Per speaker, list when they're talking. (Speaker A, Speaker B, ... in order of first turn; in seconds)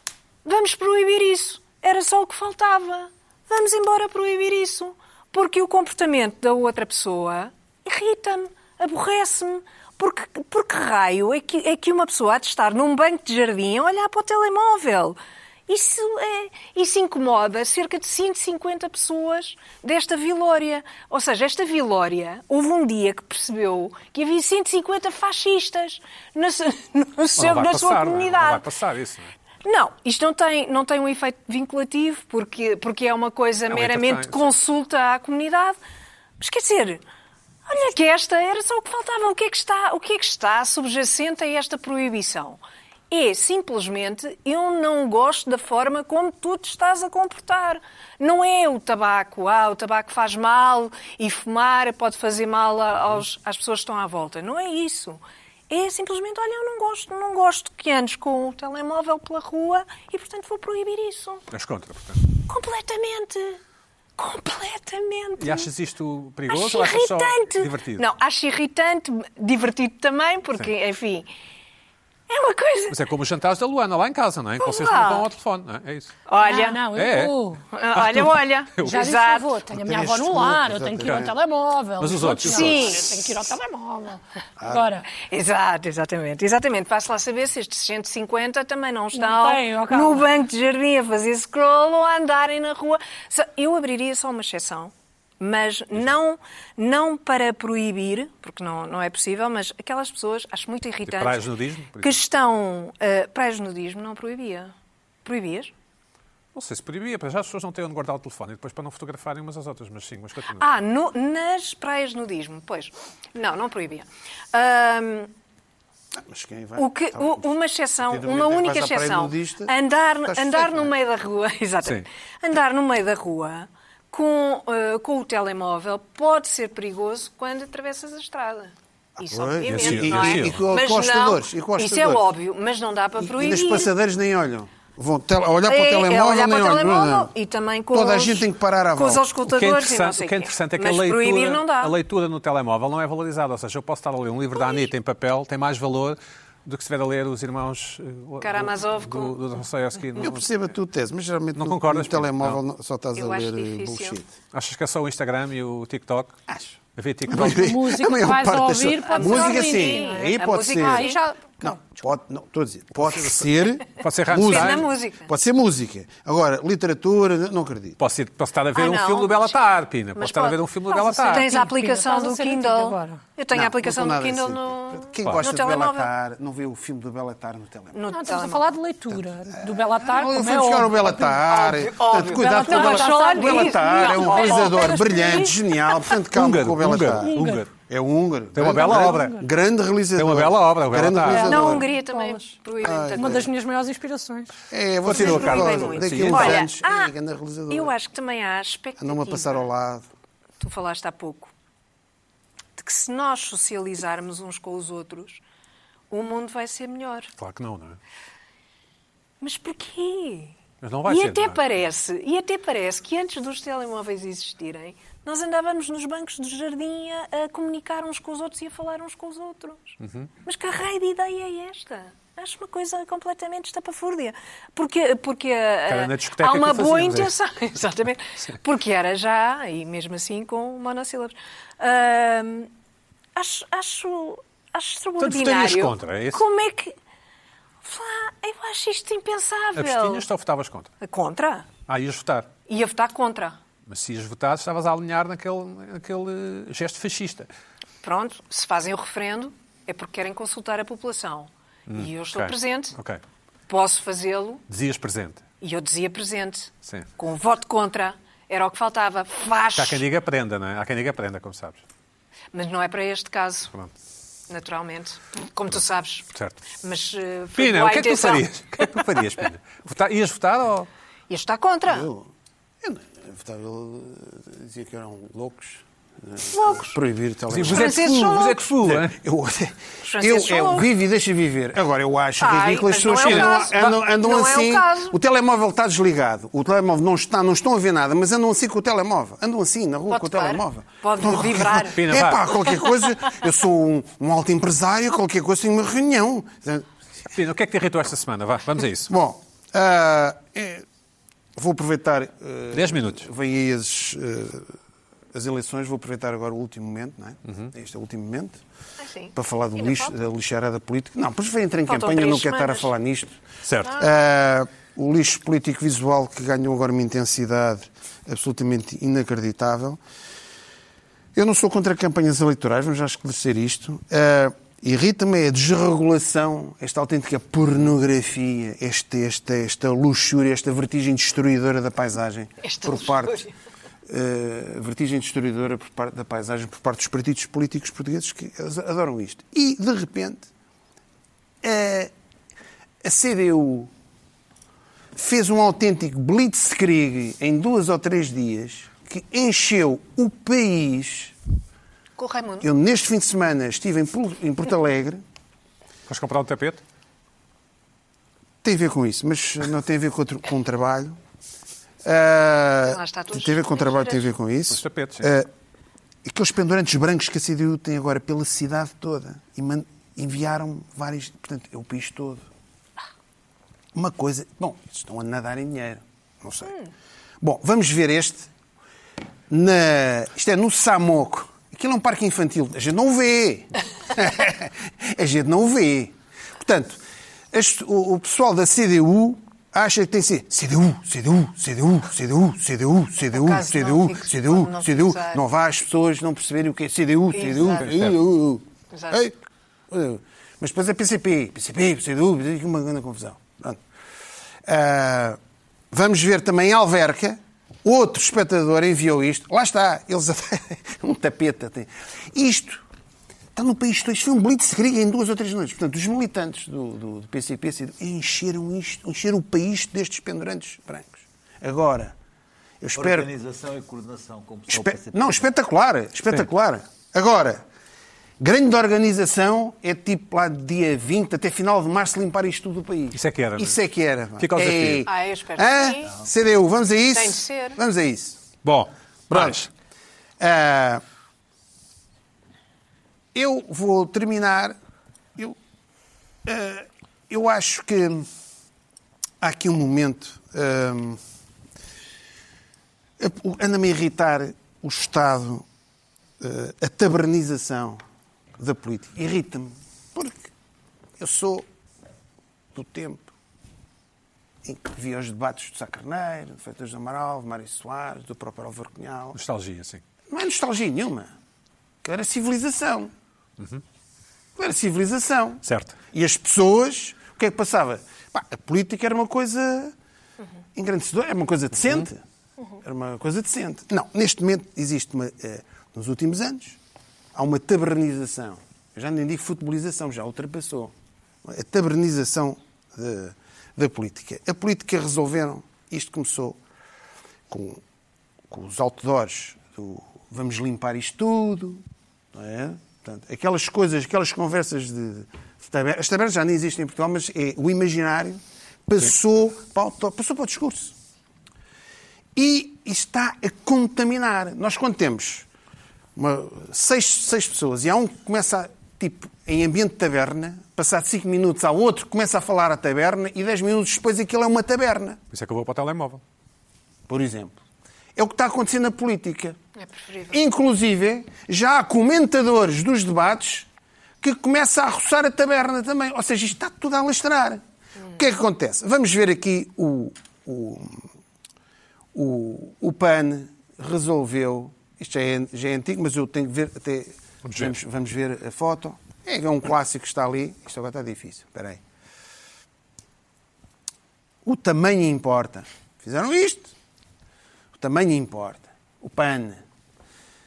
Speaker A: 0.5-28.6, 29.6-35.8, 36.4-37.0, 37.7-61.5, 62.4-63.6, 64.2-65.7, 66.5-71.3, 72.3-73.0, 74.6-75.3, 76.3-76.8, 77.7-79.5, 82.4-83.1, 85.1-104.7, 105.2-105.7, 110.6-115.3, 116.8-133.9, 135.7-141.9, 144.6-144.9, 148.4-149.4, 153.2-154.2, 159.1-161.2, 164.3-165.3, 168.7-169.6, 170.2-176.1, 177.9-178.7, 181.5-186.2, 191.4-193.5, 195.1-197.1, 197.7-199.7, 200.6-201.5, 202.8-205.4, 206.1-207.3, 209.4-210.6, 211.1-232.7, 233.4-236.9, 237.8-240.2, 241.0-241.7, 242.7-243.6, 248.0-252.9, 253.7-254.6, 255.6-260.0, 262.5-263.7, 264.5-266.3, 266.8-268.9, 271.3-272.1, 276.5-277.0, 277.6-278.6, 280.0-280.9, 282.4-285.1, 290.1-292.0, 309.0-310.1, 311.9-312.9, 313.8-314.1, 332.6-333.5, 352.2-352.7, 362.8-364.3, 393.2-395.4, 397.3-398.1, 398.9-399.2, 435.1-436.2, 437.1-437.8, 529.8-530.4
Speaker B: 27.4-29.3, 33.7-34.5, 61.5-62.2, 65.4-68.0, 72.9-76.1, 76.9-77.4, 78.0-79.0, 81.0-81.3, 82.0-83.0, 101.1-102.2, 106.5-110.6, 129.7-130.7, 139.4-150.5, 151.6-152.6, 154.5-156.3, 156.9-157.7, 163.0-164.9, 168.0-171.5, 186.3-187.7, 188.5-189.4, 190.2-191.6, 195.0-196.7, 207.4-208.0, 210.8-211.6, 220.0-220.3, 225.9-227.3, 235.2-236.4, 239.8-240.9, 241.9-242.5, 243.9-247.5, 251.9-253.2, 254.7-255.4, 259.8-261.8, 266.3-266.6, 267.6-270.9, 277.5-279.2, 283.2-283.9, 291.9-292.4, 297.3-299.1, 302.7-303.3, 313.6-314.0, 356.1-356.8, 364.7-365.3, 397.8-398.2, 433.1-433.8, 434.4-435.1, 438.6-439.7, 469.3-470.0, 475.6-476.0, 525.3-526.2, 547.4-547.8
Speaker C: 76.4-77.6, 78.8-85.1, 89.1-90.2, 157.3-161.9, 171.2-173.2, 178.1-181.6, 182.2-185.4, 187.2-187.7, 188.7-189.4, 191.2-192.6, 193.2-194.5
Speaker D: 79.7-81.3, 84.6-84.9, 116.2-117.4, 118.1-119.7, 120.2-120.9, 129.3-132.2, 133.2-137.3, 137.9-139.2, 150.2-154.3, 156.5-156.8, 157.3-168.0, 173.5-178.0, 179.6-191.9, 192.8-193.5, 194.7-197.9, 199.0-200.1, 271.9-272.3, 272.8-296.9, 299.1-300.8, 301.6-304.7, 305.3-308.6, 309.3-313.4, 313.9-320.0, 321.4-333.5, 334.1-340.5, 341.6-342.1, 343.0-343.9, 345.1-351.3, 352.6-355.2, 358.6-361.2, 362.0-365.5, 366.2-372.4, 373.9-376.8, 377.4-378.5, 379.5-387.0, 387.5-399.4, 399.9-403.8, 404.6-405.4, 405.9-412.8, 413.6-422.1, 422.8-423.3, 424.7-427.6, 428.4-438.4, 439.3-439.6, 440.4-441.0, 443.3-444.8, 446.4-448.3, 449.4-451.2, 453.2-455.6, 456.4-458.0, 458.6-460.5, 461.2-461.6, 462.8-463.3, 464.6-469.4, 470.3-471.3, 472.0-473.1, 474.6-479.9, 480.8-482.2, 482.8-486.8, 487.3-490.9, 491.4-496.6, 497.5-497.8, 498.5-501.8, 502.3-510.9, 512.4-515.5, 516.1-525.2, 527.1-527.6, 528.2-529.6, 530.3-533.7, 534.2-537.6, 538.1-541.0, 542.1-551.8, 554.4-556.7, 557.8-559.6
Speaker E: 422.9-425.5